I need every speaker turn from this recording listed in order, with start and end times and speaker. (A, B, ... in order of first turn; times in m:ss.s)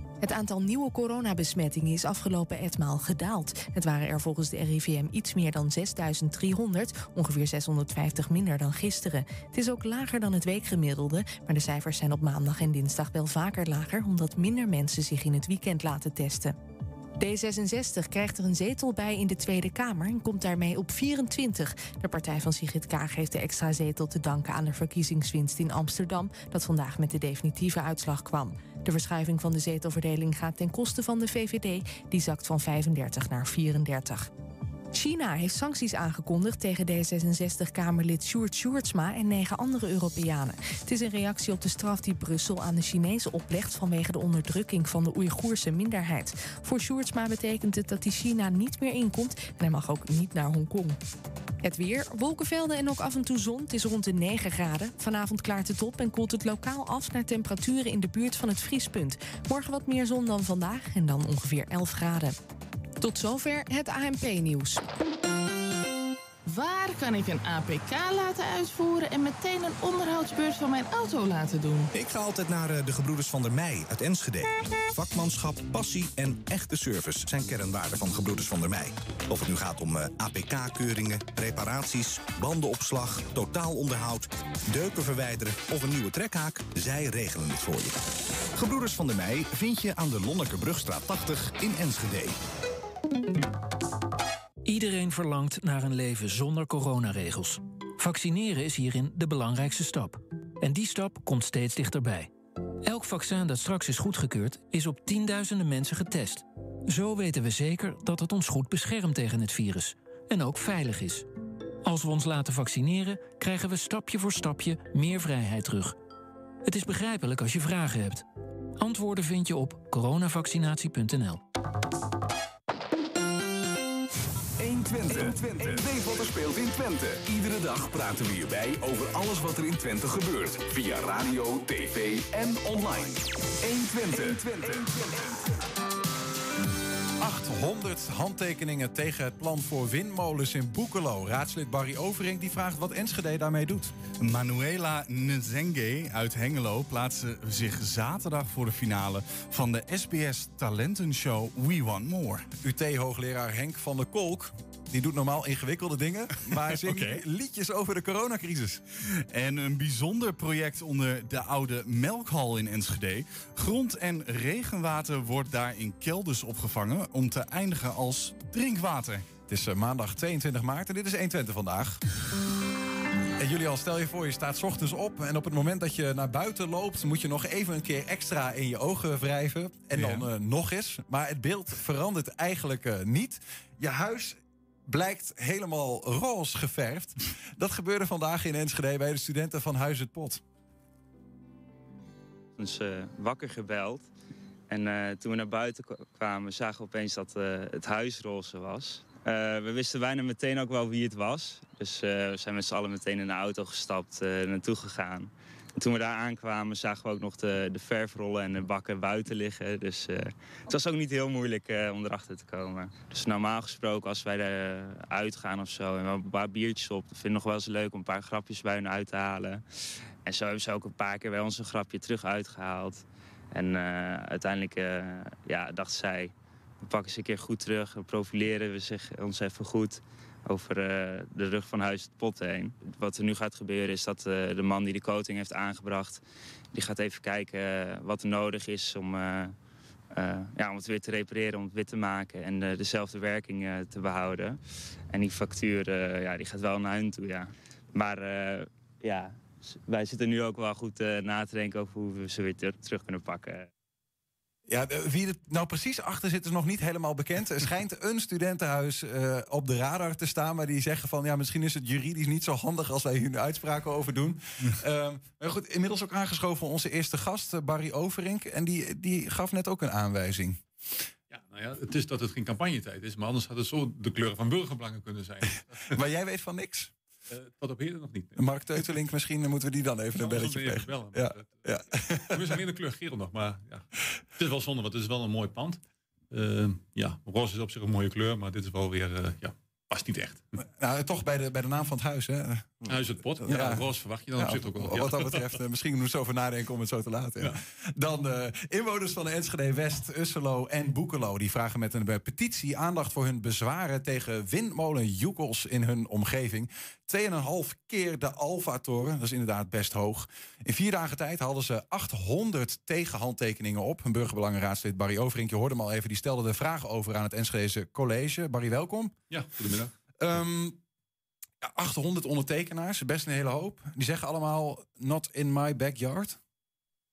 0:00.2-0:16.6 A
0:17.2-0:34.3 A
0:34.9-0:51.0 A
0:51.6-1:02.4 A
1:03.0-1:04.8 A
1:06.4-1:11.9 B
1:11.9-1:27.9 C
1:28.5-1:32.3 C
1:34.6-1:42.3 D
1:42.8-1:51.2 D
1:51.8-1:56.0 D
1:56.6-1:58.2 D
1:58.8-2:01.4 D
2:04.6-2:15.4 E
2:17.2-2:23.9 F
2:24.2-2:32.4 G
2:32.6-2:38.8 F
2:39.2-2:49.3 G
2:49.5-2:52.0 F
2:53.4-3:10.4 F
3:12.6-3:14.0 H
3:14.7-3:39.6 H
3:40.2-3:46.3 H
3:46.8-3:56.2 H
3:56.7-3:59.5 H
4:00.1-4:04.6 H
4:05.1-4:13.7 H
4:14.7-4:30.6 F
4:31.3-4:36.0 I
4:35.9-4:36.9 F
4:37.3-4:38.8 I
4:38.4-4:42.5 F
4:40.1-4:50.4 I
4:50.8-4:53.8 F
4:52.8-4:55.6 I
4:54.4-5:19.1 F
5:19.3-5:19.9 I
5:20.2-5:20.8 F
5:21.6-5:26.4 F